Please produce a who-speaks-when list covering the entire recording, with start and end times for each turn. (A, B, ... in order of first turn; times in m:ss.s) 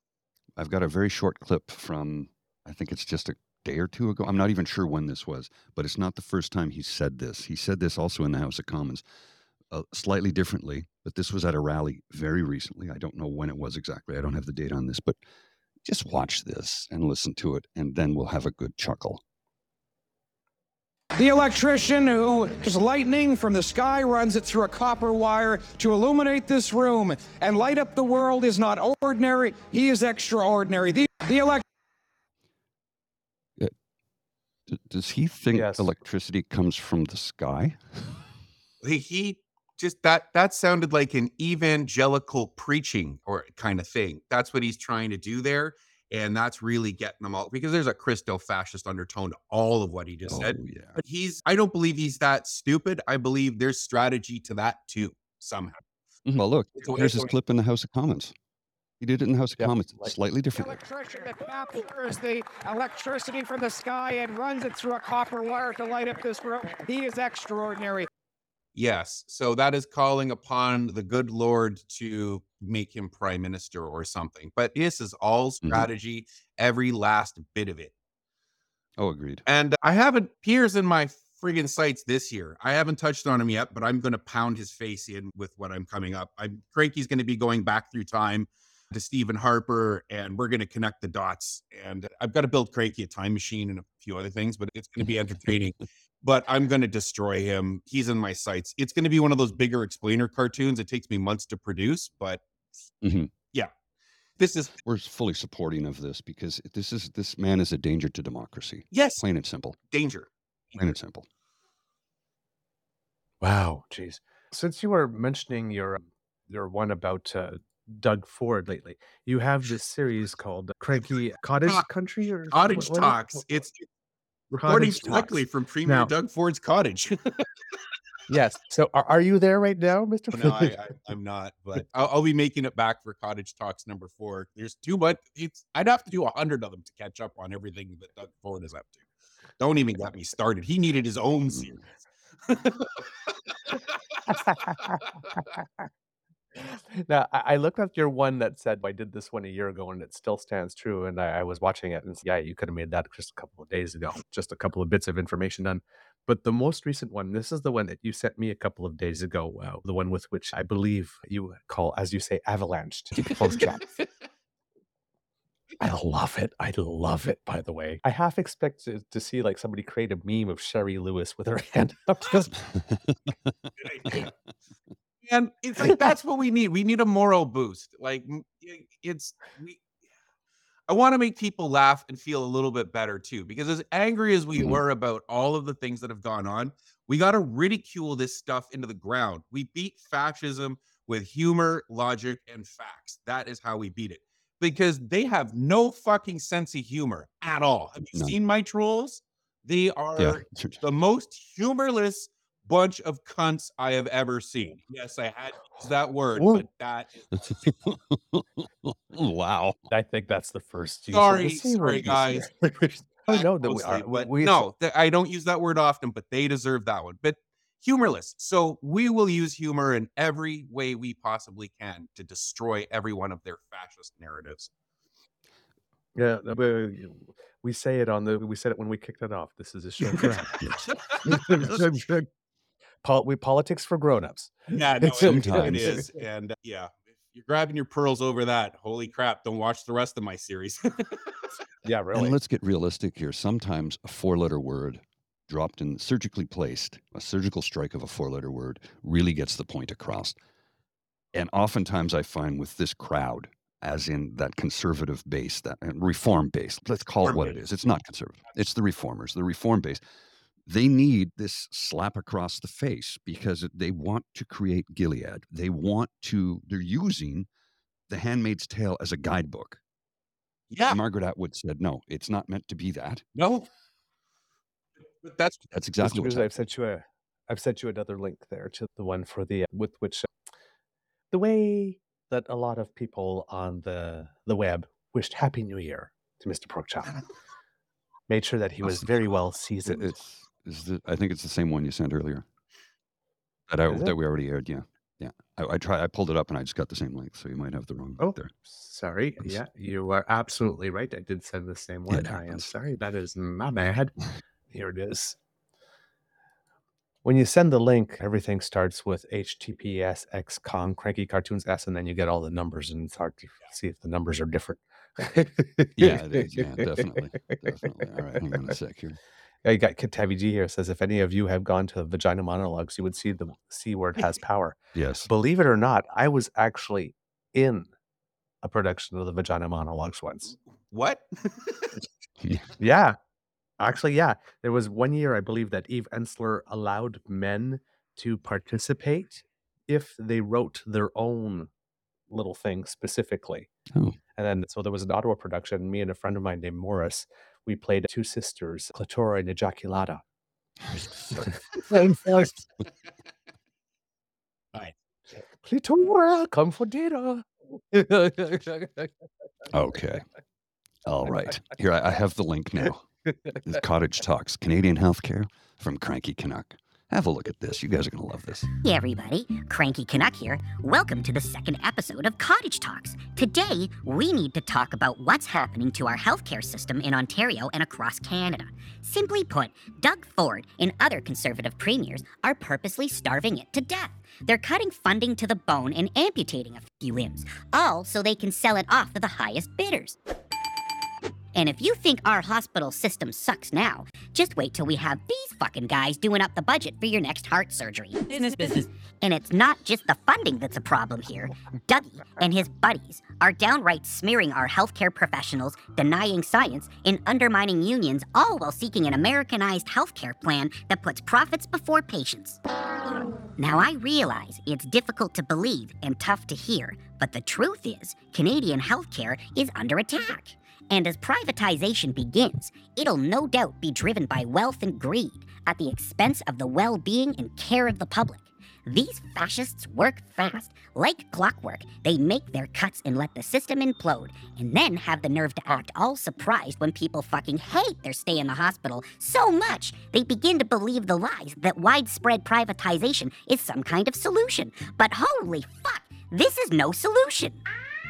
0:00.6-0:09.0 A
0:09.7-0:15.2 A
0:15.8-0:19.2 A
0:21.2-0:31.6 B
0:34.7-0:38.1 A
0:35.5-0:35.9 C
0:38.8-0:55.8 D
0:50.3-0:51.0 A
0:56.2-0:58.3 A
0:56.8-0:57.3 D
0:59.0-1:00.8 A
0:59.6-1:00.1 C
1:00.6-1:08.1 B
1:08.7-1:17.9 D
1:19.0-1:19.4 A
1:19.5-1:42.4 D
1:43.0-1:43.3 A
1:44.4-1:44.7 D
1:44.8-1:49.8 A
1:48.9-1:49.2 D
1:49.9-1:50.3 D
1:50.7-1:51.3 A
1:53.4-2:03.2 C
2:02.5-2:03.8 D
2:04.5-2:05.3 C
2:04.6-2:07.5 D
2:05.8-2:06.1 C
2:08.3-2:10.7 C
2:10.3-2:19.0 D
2:19.6-2:21.8 D
2:21.5-2:21.8 A
2:22.5-2:23.8 D
2:24.3-2:25.9 C
2:26.6-2:43.9 C
2:45.8-2:52.5 C
2:52.7-2:54.3 A
2:53.8-2:54.2 D
2:55.2-2:59.8 D
3:00.9-3:27.3 D
3:20.2-3:20.8 A
3:26.4-3:26.6 C
3:27.5-3:29.8 A
3:29.9-3:34.6 C
3:31.1-3:32.5 D
3:33.3-3:44.7 D
3:46.1-3:50.6 C
3:51.2-3:52.3 C
3:53.0-3:56.1 C
3:54.7-4:01.4 D
3:55.2-3:56.0 A
4:01.8-4:02.3 C
4:02.1-4:10.4 A
4:11.3-4:20.0 A
4:17.2-4:17.5 D
4:20.6-4:27.5 A
4:28.1-4:29.8 A
4:30.7-4:31.0 D
4:30.9-4:33.2 A
4:33.3-4:33.7 D
4:35.2-4:35.6 D
4:35.7-4:36.5 A
4:36.0-4:40.3 C
4:41.3-4:47.2 C
4:48.3-4:50.2 C
4:49.8-4:52.4 A
4:53.7-4:58.5 A
4:53.9-4:54.1 C
4:58.2-5:04.1 C
5:02.1-5:02.7 A
5:04.7-5:05.4 C
5:07.2-5:17.6 C
5:16.0-5:19.2 A
5:19.6-5:27.9 C
5:24.9-5:25.3 A
5:28.6-5:30.5 C
5:30.9-5:31.9 D
5:32.4-5:32.7 A
5:32.8-5:33.2 C
5:33.8-5:41.7 C
5:42.3-5:43.7 C
5:43.9-5:44.2 A
5:44.4-5:50.2 C
5:50.9-5:51.5 A
5:51.4-5:52.6 C
5:55.6-5:59.1 C
5:59.7-6:00.2 A
6:01.0-6:08.7 A
6:08.8-6:30.2 E
6:31.5-6:38.5 E
6:39.2-6:52.6 E
6:53.6-7:27.6 E